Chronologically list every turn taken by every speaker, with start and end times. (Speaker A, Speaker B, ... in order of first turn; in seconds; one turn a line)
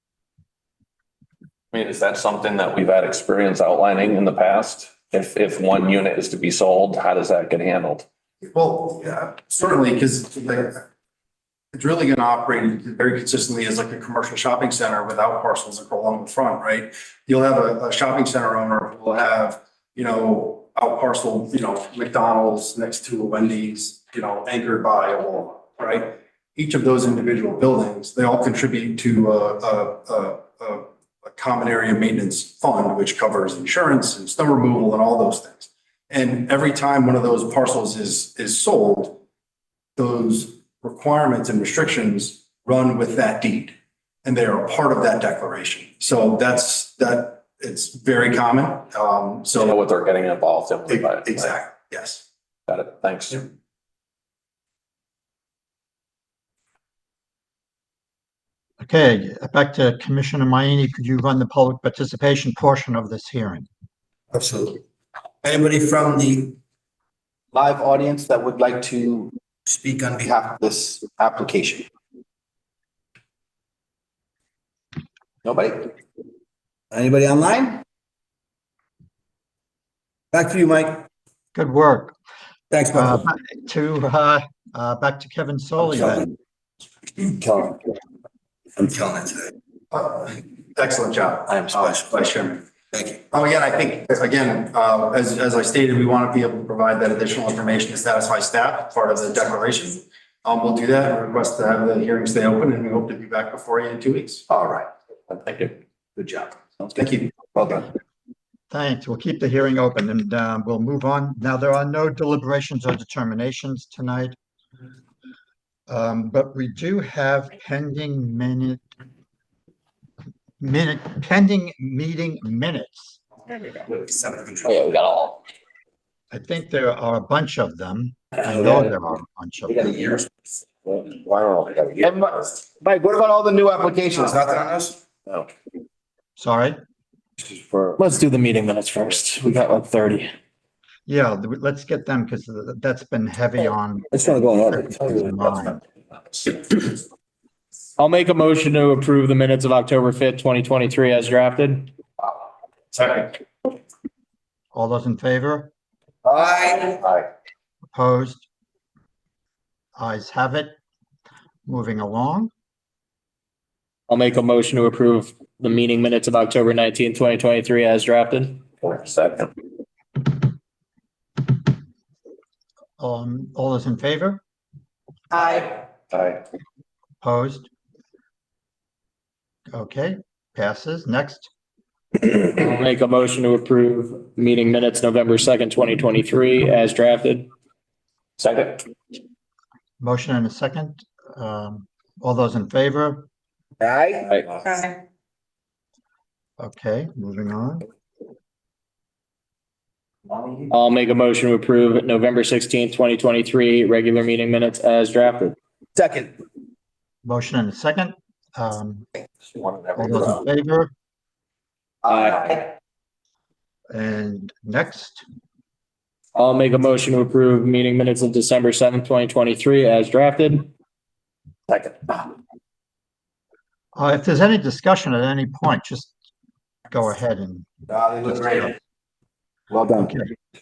Speaker A: 1.7-8.1
Speaker B: 8.4-10.8
Speaker B: 11.7-39.2
Speaker B: 40.0-49.8
Speaker A: 49.6-51.5
Speaker B: 50.9-52.2
Speaker A: 52.7-53.5
Speaker C: 58.8-63.7
Speaker D: 64.3-64.8
Speaker D: 65.4-66.6
Speaker D: 67.5-71.9
Speaker D: 75.5-75.9
Speaker D: 76.9-77.8
Speaker D: 80.3-81.0
Speaker C: 81.5-82.2
Speaker D: 82.7-83.2
Speaker C: 82.9-86.3
Speaker D: 87.2-87.8
Speaker D: 88.8-89.5
Speaker B: 89.9-92.6
Speaker D: 91.5-92.2
Speaker D: 92.9-93.2
Speaker B: 93.3-104.5
Speaker D: 104.5-104.9
Speaker A: 105.3-105.8
Speaker D: 106.2-107.8
Speaker B: 107.0-107.5
Speaker C: 108.7-114.4
Speaker C: 115.9-118.9
Speaker C: 120.6-123.2
Speaker D: 123.9-124.9
Speaker C: 126.3-130.1
Speaker D: 129.7-130.2
Speaker D: 130.9-135.4
Speaker C: 136.4-136.8
Speaker D: 137.4-137.9
Speaker E: 138.0-140.3
Speaker C: 141.1-145.8
Speaker D: 144.1-145.3
Speaker E: 148.0-151.9
Speaker C: 154.7-155.7
Speaker D: 156.3-157.0
Speaker C: 157.9-158.5
Speaker C: 160.0-160.8
Speaker C: 161.7-162.5
Speaker E: 164.1-168.7
Speaker A: 168.8-169.5
Speaker C: 173.0-174.4
Speaker A: 175.3-176.4
Speaker C: 177.2-177.7
Speaker C: 179.7-181.5
Speaker E: 182.2-187.5
Speaker A: 188.4-188.8
Speaker C: 190.0-193.3
Speaker D: 193.8-194.7
Speaker A: 194.3-194.6
Speaker C: 196.6-197.9
Speaker E: 200.7-205.6
Speaker D: 206.0-206.3
Speaker C: 207.2-209.1
Speaker C: 210.0-210.9
Speaker E: 212.1-212.4
Speaker C: 213.9-215.2
Speaker E: 216.3-220.7
Speaker C: 224.0-226.2
Speaker C: 226.9-228.7
Speaker D: 227.9-228.7
Speaker D: 229.7-230.1
Speaker C: 230.0-230.3